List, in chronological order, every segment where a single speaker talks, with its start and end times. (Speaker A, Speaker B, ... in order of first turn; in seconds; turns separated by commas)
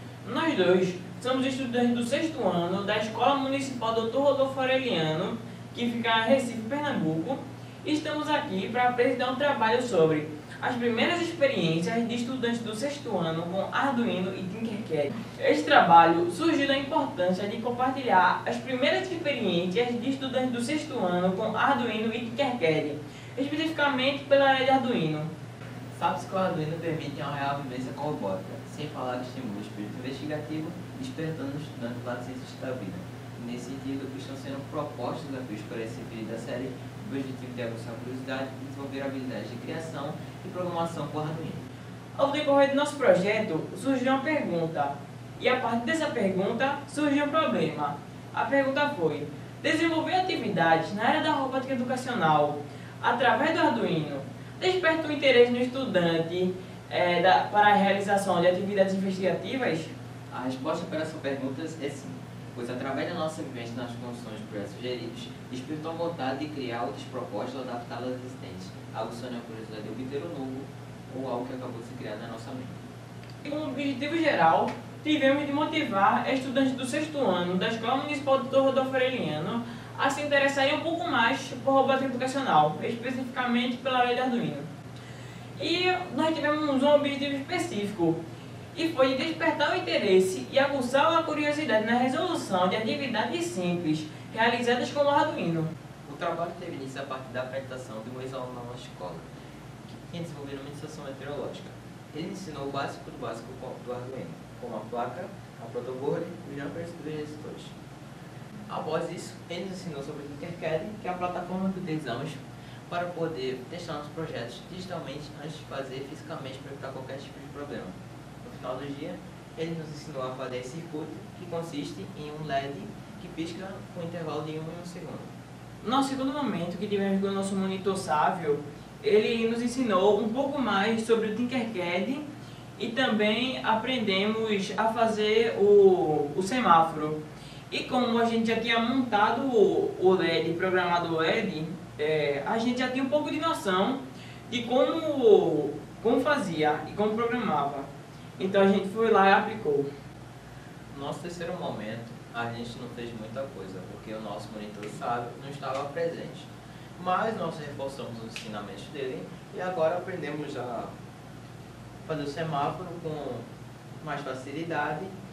Speaker A: 0.2-25.3, Speaker B: 25.9-41.7, Speaker A: 42.1-59.9, Speaker B: 60.3-72.8, Speaker A: 73.4-84.7, Speaker A: 85.6-88.2, Speaker A: 88.7-95.7, Speaker B: 96.0-99.3, Speaker B: 99.8-107.7, Speaker B: 108.7-125.3, Speaker A: 125.8-132.2, Speaker A: 132.8-149.9, Speaker B: 150.9-160.9, Speaker B: 162.1-163.4, Speaker B: 164.0-165.1